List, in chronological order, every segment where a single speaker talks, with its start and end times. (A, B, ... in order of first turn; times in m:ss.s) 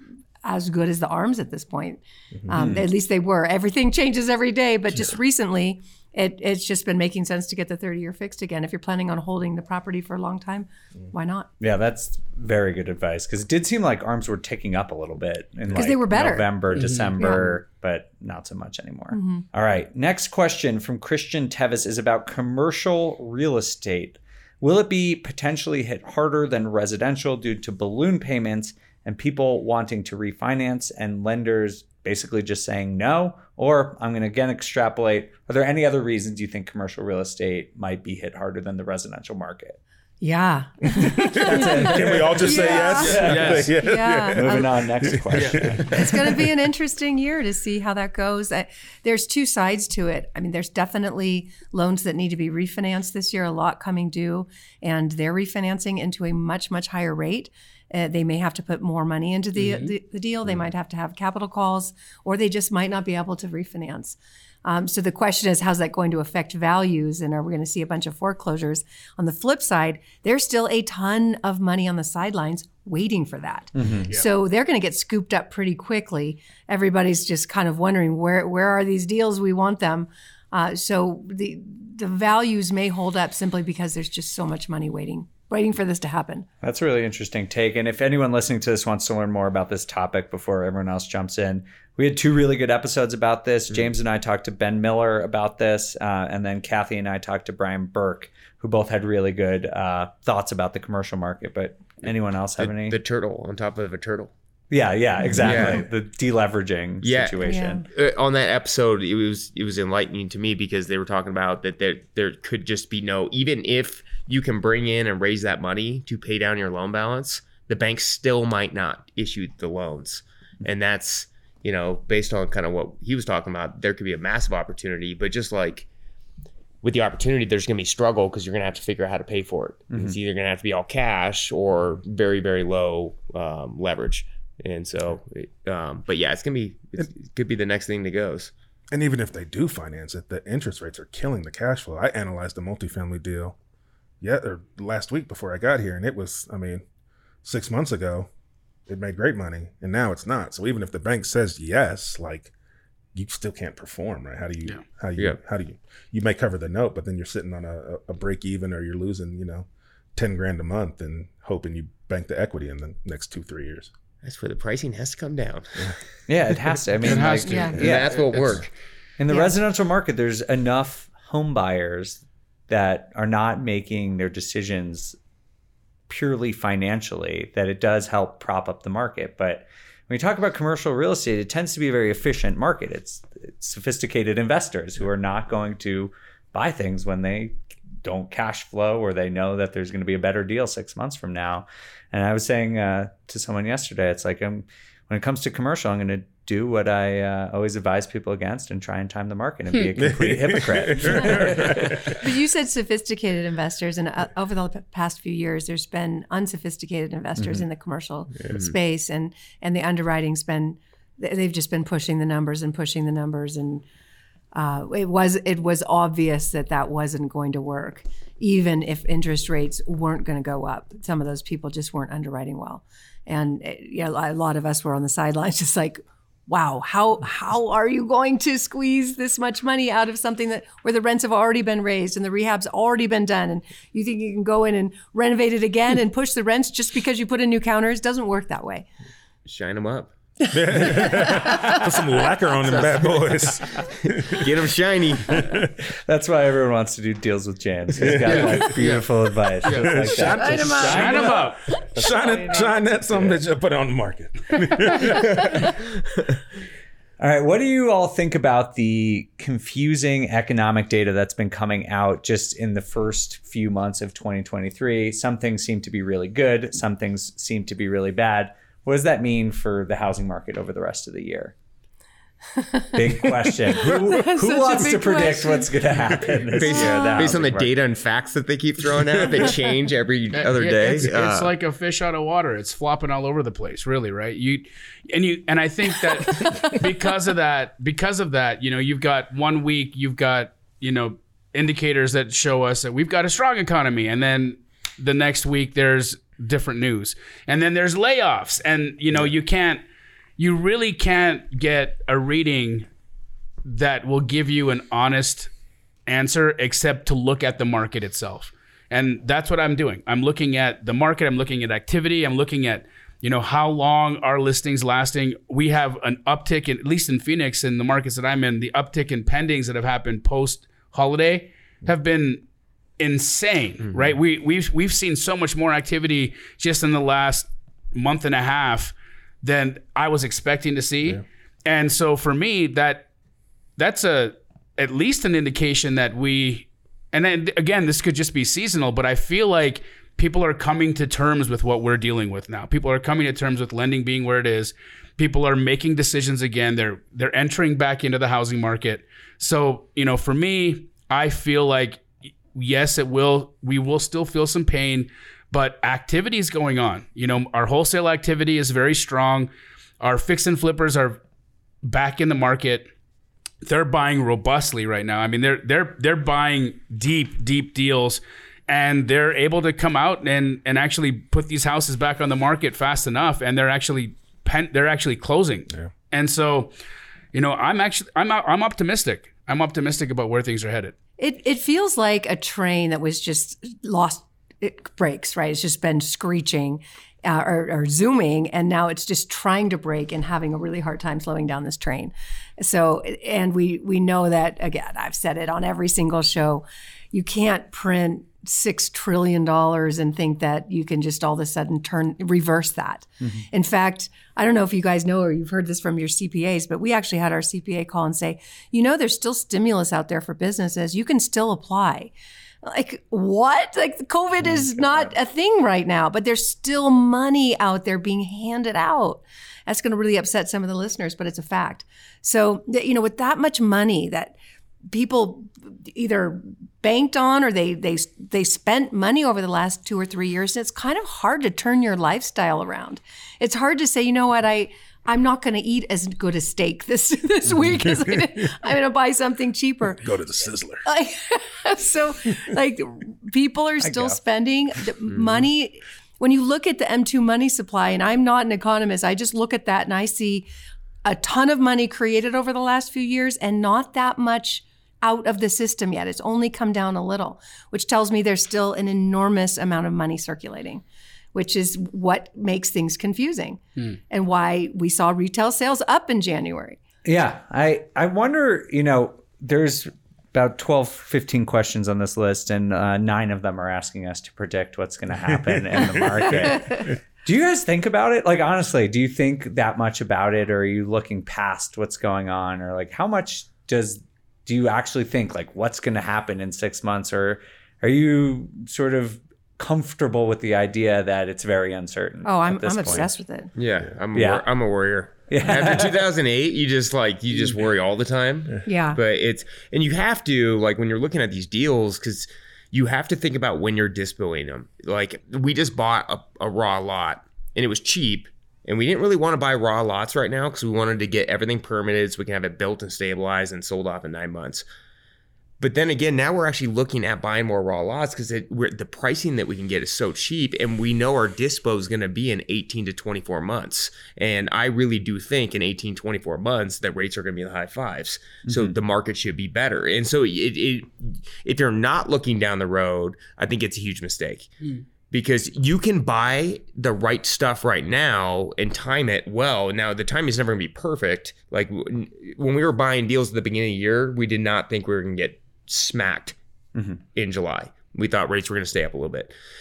0:00.4-0:11.5 A
0:02.5-0:02.9 B
0:11.6-0:39.8 B
0:15.7-0:17.6 A
0:16.7-0:17.2 C
0:19.1-0:19.5 A
0:40.2-0:44.7 A
0:41.0-0:46.2 B
0:41.4-0:46.4 D
0:42.9-0:43.7 C
0:45.3-0:45.6 C
0:45.8-1:26.5 A
0:59.6-0:59.9 C
1:13.8-1:14.1 B
1:26.6-1:43.0 B
1:42.6-1:44.3 E
1:44.7-1:47.8 B
1:45.4-1:45.8 E
1:47.0-2:05.9 E
1:47.4-1:47.8 A
2:06.8-2:18.5 E
2:09.9-2:10.2 B
2:18.9-2:23.6 D
2:24.2-2:26.8 D
2:27.4-2:28.3 D
2:28.9-2:32.5 D
2:33.1-2:43.9 D
2:44.2-2:46.0 E
2:46.3-2:48.3 B
2:47.0-2:48.6 C
2:47.4-2:47.8 A
2:47.8-2:48.7 E
2:49.2-2:55.2 B
2:56.1-3:22.1 B
3:20.0-3:22.2 D
3:21.3-3:33.8 A
3:27.4-3:27.6 B
3:28.5-3:28.8 E
3:34.5-3:58.9 A
3:59.5-4:00.1 E
4:00.5-4:04.5 D
4:00.7-4:01.8 A
4:02.6-4:05.6 E
4:05.3-4:05.7 D
4:06.1-4:12.3 B
4:08.0-4:08.8 D
4:08.3-4:09.1 C
4:09.6-4:11.7 C
4:09.7-4:15.9 D
4:10.2-4:12.7 A
4:12.8-4:13.4 B
4:17.2-4:31.5 B
4:32.6-4:35.7 A
4:32.9-4:37.7 B
4:36.5-4:41.5 E
4:36.6-4:37.4 A
4:40.3-4:59.8 C
4:46.4-4:46.8 A
5:00.4-5:02.9 C
5:03.6-5:05.5 C
5:06.1-5:22.4 C
5:23.0-5:33.1 C
5:23.8-5:24.2 E
5:33.8-6:01.2 C
6:01.8-6:02.9 C
6:03.6-6:16.7 C
6:17.3-6:21.0 C
6:21.2-6:52.1 A
6:52.6-7:04.4 A
7:04.9-7:20.1 A
7:20.0-7:20.8 D
7:20.9-7:30.5 A
7:23.8-7:24.2 B
7:25.1-7:25.4 E
7:31.0-7:40.8 A
7:41.3-7:46.8 A
7:47.0-8:13.1 B
7:55.3-7:56.6 D
7:56.3-7:56.9 A
8:12.2-8:13.5 A
8:13.6-8:34.6 E
8:14.1-8:14.5 B
8:15.3-8:16.0 B
8:18.6-8:19.0 A
8:35.6-8:54.5 E
8:48.5-8:48.8 B
8:55.1-9:06.4 E
9:06.8-9:07.0 B
9:07.1-9:09.3 E